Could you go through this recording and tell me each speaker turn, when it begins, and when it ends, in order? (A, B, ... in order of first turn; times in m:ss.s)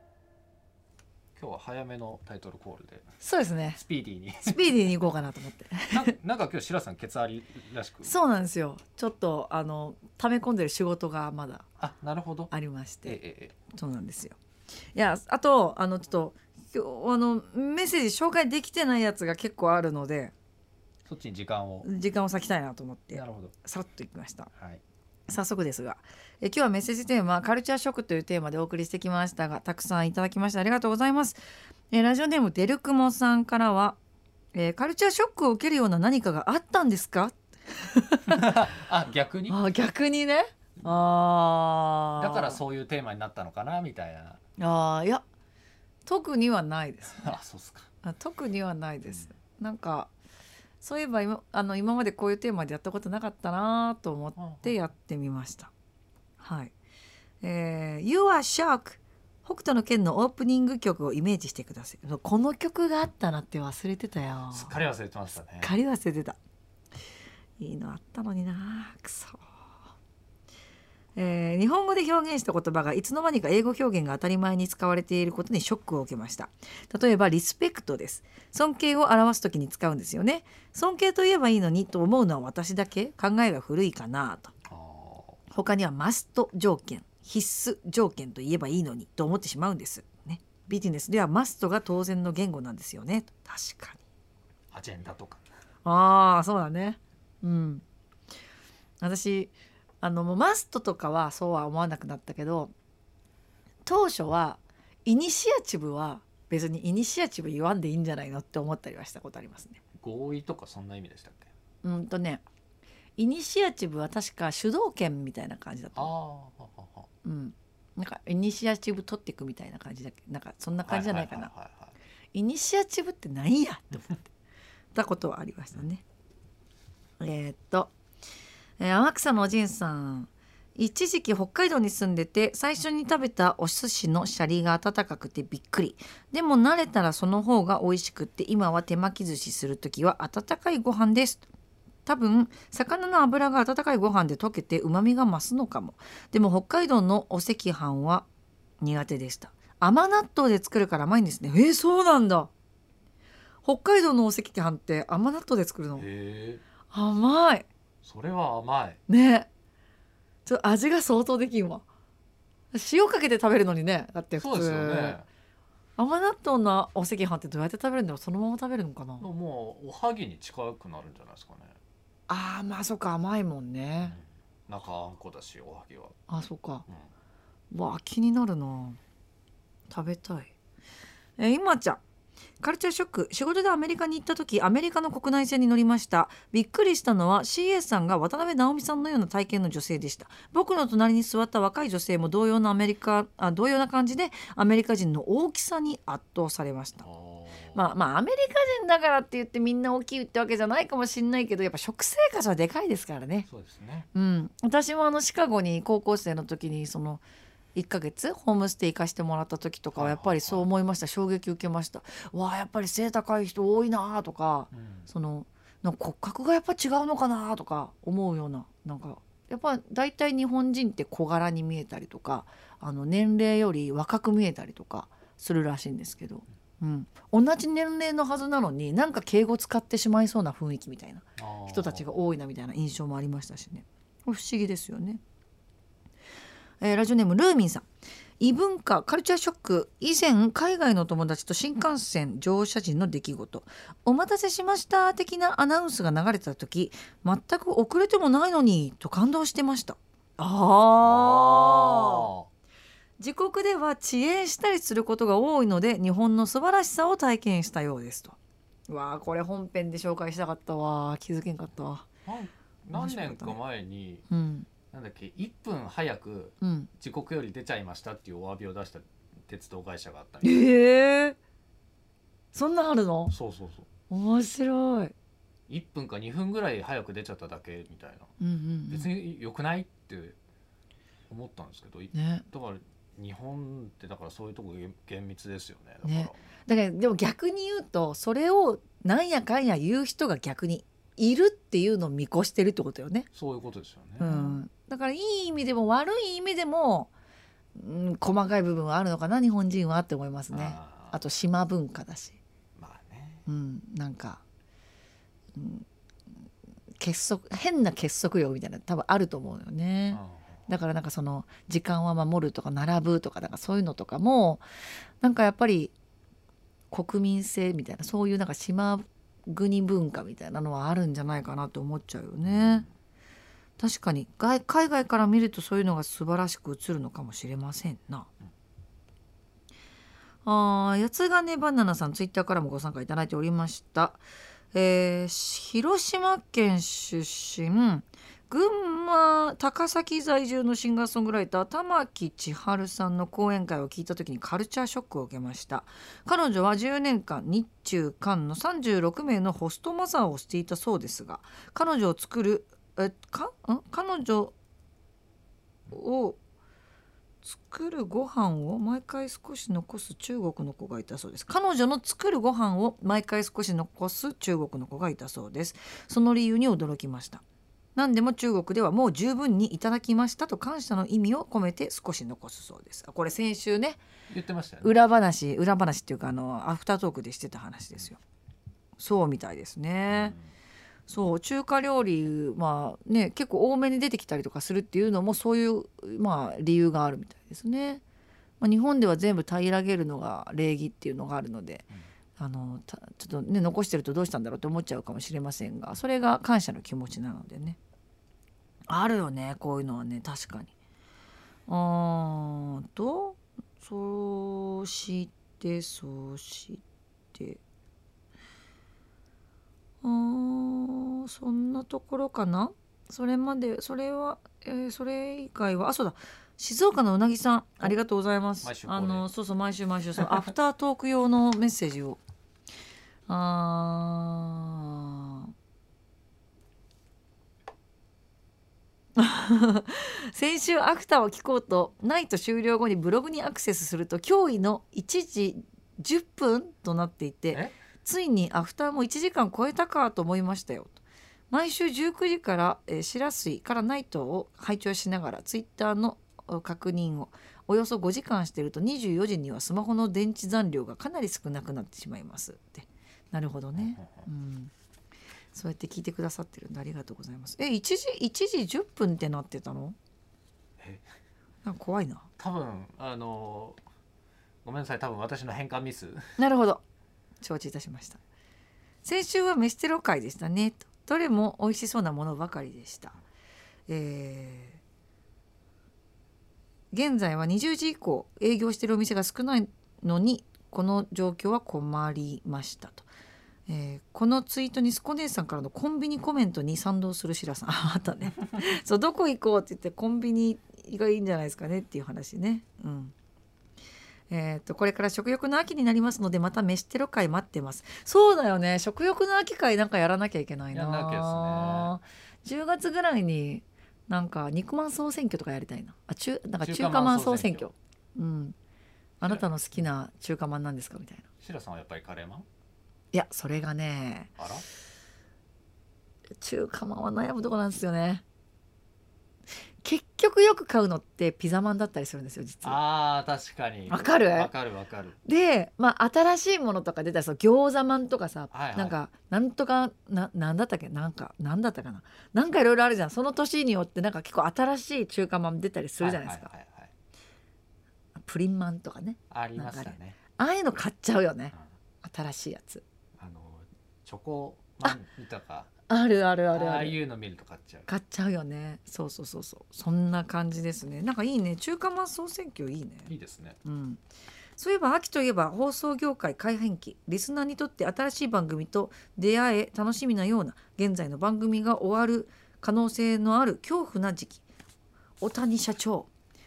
0:01.4-0:03.1 A
0:03.2-0:03.8 B
0:03.8-0:04.9 A
0:04.4-0:06.1 B
0:05.9-0:08.1 A
0:08.0-0:11.7 B
0:11.8-0:12.5 A
0:12.5-0:13.2 B
0:13.0-0:13.6 A
0:13.7-0:14.4 B
0:15.0-0:20.3 B
0:21.1-0:21.9 A
0:21.8-0:24.5 B
0:23.1-0:23.6 A
0:24.6-0:24.8 A
0:25.3-0:31.4 B
0:31.9-0:34.0 B
0:34.5-0:38.3 B
0:38.3-0:39.6 A
0:39.5-0:42.6 B
0:42.2-0:44.4 A
0:44.6-0:45.2 B
0:46.1-0:47.4 B
0:47.1-0:47.9 A
0:48.0-0:50.1 B
0:50.8-0:55.7 B
0:54.4-0:54.8 A
0:56.4-0:56.7 B
0:57.4-1:04.8 B
1:04.5-1:05.8 A
1:05.6-1:06.4 B
1:07.6-1:09.4 B
1:11.2-1:24.5 B
1:24.7-1:25.4 A
1:25.5-1:34.0 B
1:34.7-1:35.5 A
1:35.8-1:37.8 B
1:39.0-1:42.7 B
1:43.9-1:49.8 B
1:50.0-1:51.5 A
1:51.8-1:52.4 B
1:53.2-1:56.1 B
1:56.0-1:57.1 A
1:57.2-2:01.5 B
2:00.8-2:02.0 A
2:02.3-2:04.3 B
2:04.9-2:06.0 B
2:07.2-2:07.9 B
2:08.8-2:21.5 B
2:22.1-2:28.3 B
2:28.8-2:32.5 B
2:33.6-2:36.1 B
2:35.9-2:36.6 A
2:36.9-2:37.7 B
2:38.0-2:39.0 A
2:39.1-2:39.5 B
2:40.4-2:41.8 B
2:42.7-2:45.2 B
2:44.4-2:45.3 A
2:46.0-2:49.3 B
2:49.2-2:51.8 A
2:52.3-2:54.2 B
2:54.0-2:56.2 A
2:56.3-2:56.9 B
2:57.7-2:59.0 B
2:59.9-3:00.5 B
3:01.4-3:02.0 B
3:02.6-3:17.1 B
3:17.0-3:17.9 A
3:17.7-3:23.5 B
3:23.5-3:24.1 A
3:24.1-3:27.2 B
3:27.8-3:55.2 B
3:29.9-3:30.7 A
3:34.7-3:35.1 A
3:51.4-3:52.1 A
3:56.8-3:57.9 B
3:58.4-4:12.3 B
4:11.0-4:12.5 A
4:13.2-4:18.4 B
4:18.9-4:22.1 B
4:22.2-4:24.3 A
4:22.9-4:23.6 B
4:24.3-4:24.7 B
4:24.9-4:30.8 A
4:26.6-4:26.9 B
4:30.4-4:31.4 B
4:32.5-4:33.3 B
4:33.3-4:33.9 A
4:34.1-4:35.1 B
4:35.7-4:38.3 A
4:38.4-4:39.1 B
4:38.9-4:40.4 A
4:41.3-4:46.4 A
4:42.1-4:42.4 B
4:46.0-4:53.3 B
4:53.3-4:54.6 A
4:54.2-4:57.1 B
4:57.8-5:02.4 B
5:00.5-5:01.2 A
5:02.8-5:03.5 A
5:03.5-5:04.4 B
5:05.6-5:05.9 B
5:07.0-5:14.6 B
5:10.1-5:10.6 A
5:15.2-5:15.9 B
5:16.9-5:22.9 B
5:22.4-5:22.9 A
5:23.8-5:28.3 B
5:30.4-5:54.5 B
5:55.9-5:56.4 B
5:57.4-6:07.4 B
6:08.0-6:14.0 B
6:14.3-6:15.0 A
6:14.8-6:18.2 B
6:19.0-6:20.4 B
6:20.1-6:20.5 A
6:21.1-6:28.0 B
6:28.6-6:37.8 B
6:38.9-6:40.7 B
6:41.7-6:46.8 B
6:47.3-6:47.6 B
6:50.0-7:02.2 B
6:58.6-6:59.3 A
7:03.3-7:05.5 B
7:09.2-7:21.0 B
7:21.5-7:34.7 B
7:33.8-7:34.3 A
7:35.5-7:40.0 B
7:40.8-7:41.0 A
7:41.6-7:42.3 B
7:42.4-7:43.8 A
7:44.6-7:46.3 A
7:46.4-7:46.8 B
7:47.4-7:48.2 B
7:49.0-7:53.2 B
7:53.9-7:54.8 B
7:56.9-8:03.1 B
8:03.7-8:13.1 B
8:14.3-8:28.6 B
8:20.7-8:22.0 A
8:26.6-8:27.7 A
8:29.2-8:29.9 A
8:29.2-8:31.3 B
8:31.4-8:32.5 A
8:33.1-8:34.3 B
8:34.4-8:34.7 A
8:36.4-8:38.2 B
8:39.8-8:42.8 B
8:42.6-8:45.2 A
8:43.9-8:44.5 B
8:45.2-8:56.5 B
8:48.5-8:49.0 A
8:56.0-8:56.9 A
8:58.2-9:02.8 B
8:59.3-9:00.2 A
9:03.2-9:05.7 A
9:05.9-9:07.0 B
9:06.5-9:07.9 A
9:07.9-9:13.1 B
9:13.1-9:13.6 A
9:13.6-9:14.0 B
9:14.6-9:24.4 B
9:25.2-9:26.1 B